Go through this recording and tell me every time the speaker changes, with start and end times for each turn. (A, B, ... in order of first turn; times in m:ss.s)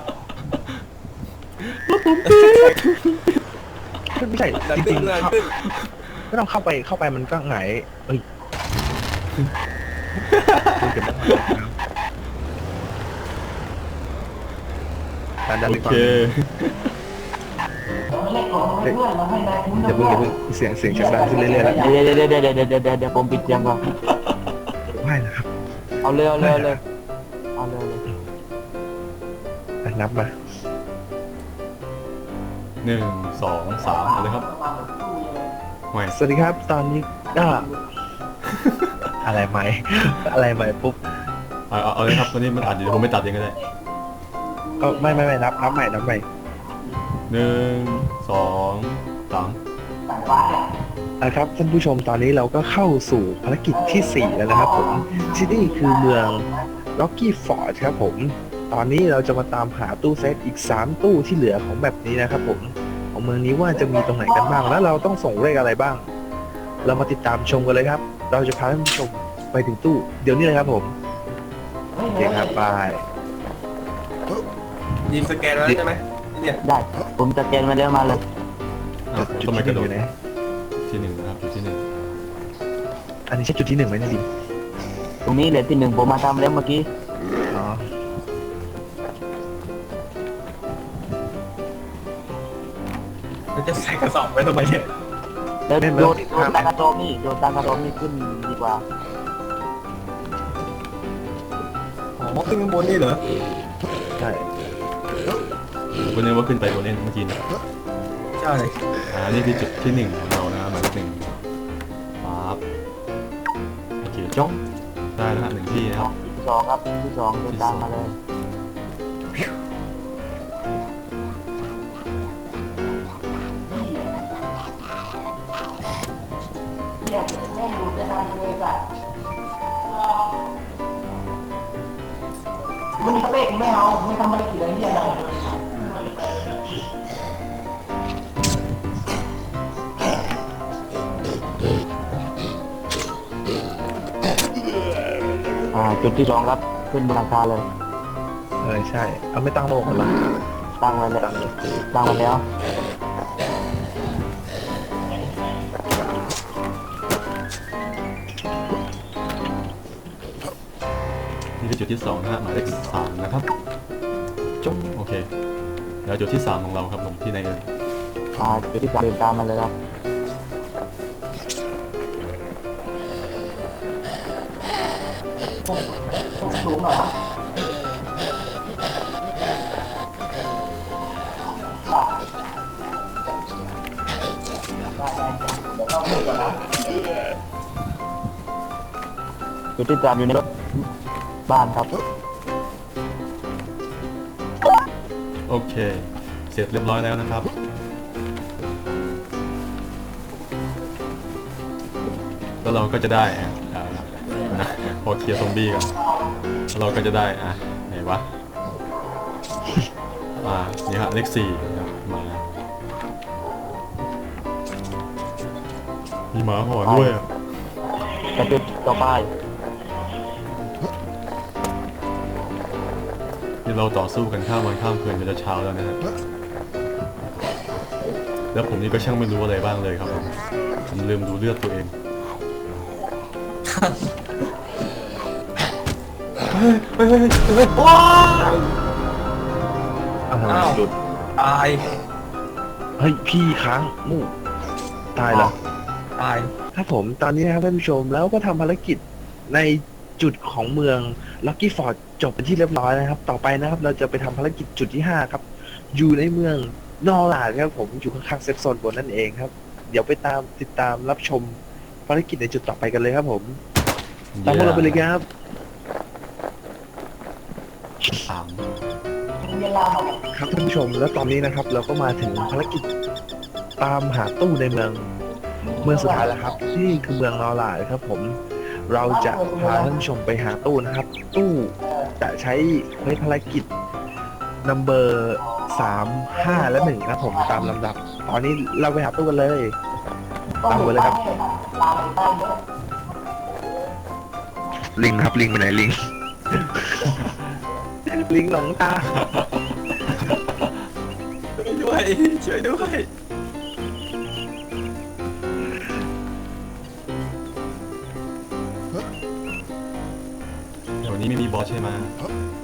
0:01.6-0:03.4 A
0:02.2-0:02.8 B
0:04.2-0:05.4 C
0:04.6-0:05.6 B
0:05.6-0:05.9 A
0:06.3-0:08.2 C
0:10.2-0:11.3 A
0:10.8-0:11.8 C
0:15.5-0:16.3 C
0:15.6-0:16.9 A
0:18.1-0:20.2 D
0:19.9-0:21.9 C
0:20.9-0:23.8 D
0:23.9-0:24.3 A
0:25.0-0:25.5 C
0:26.0-0:26.8 D
0:26.4-0:26.8 C
0:27.6-0:28.0 D
0:29.8-0:30.3 C
0:32.8-0:34.5 A
0:33.8-0:35.5 D
0:36.1-0:37.7 C
0:38.5-0:39.0 A
0:39.2-0:41.0 C
0:41.7-0:43.6 A
0:44.8-0:45.5 D
0:44.8-0:46.2 C
0:47.3-0:49.6 A
0:50.1-0:50.7 D
0:51.2-0:56.4 C
0:53.7-0:56.3 D
0:57.0-1:06.1 C
1:06.8-1:10.9 C
1:12.0-1:12.5 D
1:12.1-1:13.0 C
1:15.1-1:16.6 B
1:16.6-1:18.2 D
1:19.1-1:20.0 A
1:19.2-1:20.1 C
1:20.8-1:21.8 A
1:23.3-1:24.2 C
1:25.3-1:26.9 D
1:27.5-1:27.9 C
1:33.6-1:34.9 B
1:35.7-1:38.8 D
1:35.8-1:36.7 C
1:42.2-1:43.2 B
1:44.2-1:44.5 C
1:46.0-1:47.4 A
1:48.4-1:48.8 B
1:49.1-1:51.4 A
1:52.2-1:52.6 A
1:54.0-1:54.6 A
1:55.2-1:56.1 A
1:56.0-1:58.2 D
1:57.5-1:58.1 A
2:03.7-2:04.0 D
2:07.0-2:08.8 D
2:13.0-2:15.5 D
2:25.7-2:27.7 D
2:28.6-2:30.1 C
2:30.8-2:31.3 D
2:31.2-2:31.5 C
2:31.9-2:32.4 D
2:41.6-2:43.5 A
2:44.6-2:45.3 A
2:46.0-2:47.7 A
2:48.4-2:49.7 D
2:56.4-2:57.1 D
3:05.0-3:06.7 D
3:09.8-3:10.4 D
3:11.5-3:12.0 D
3:15.5-3:17.5 A
3:22.6-3:25.9 A
3:26.7-3:28.3 A
3:30.4-3:32.4 A
3:36.3-3:37.3 A
3:36.8-3:37.2 D
3:38.3-3:39.3 D
3:43.6-3:46.0 A
3:48.5-3:50.3 A
3:50.9-3:51.9 A
3:53.7-3:54.0 B
3:56.5-3:58.6 A
4:00.3-4:01.0 C
4:00.5-4:00.8 B
4:01.4-4:01.8 B
4:03.0-4:04.3 C
4:05.2-4:05.5 C
4:05.3-4:05.5 B
4:06.2-4:06.5 B
4:06.7-4:23.6 C
4:24.4-4:25.1 A
4:24.4-4:25.2 C
4:28.3-4:28.7 A
4:29.4-4:30.2 D
4:30.3-4:32.8 C
4:33.8-4:35.1 C
4:35.8-4:43.7 C
4:44.6-4:49.8 C
4:50.6-4:52.6 D
4:50.6-4:51.2 C
4:55.0-4:57.4 C
4:58.0-4:59.1 C
4:59.1-5:00.7 A
5:01.6-5:03.1 B
5:11.0-5:12.2 A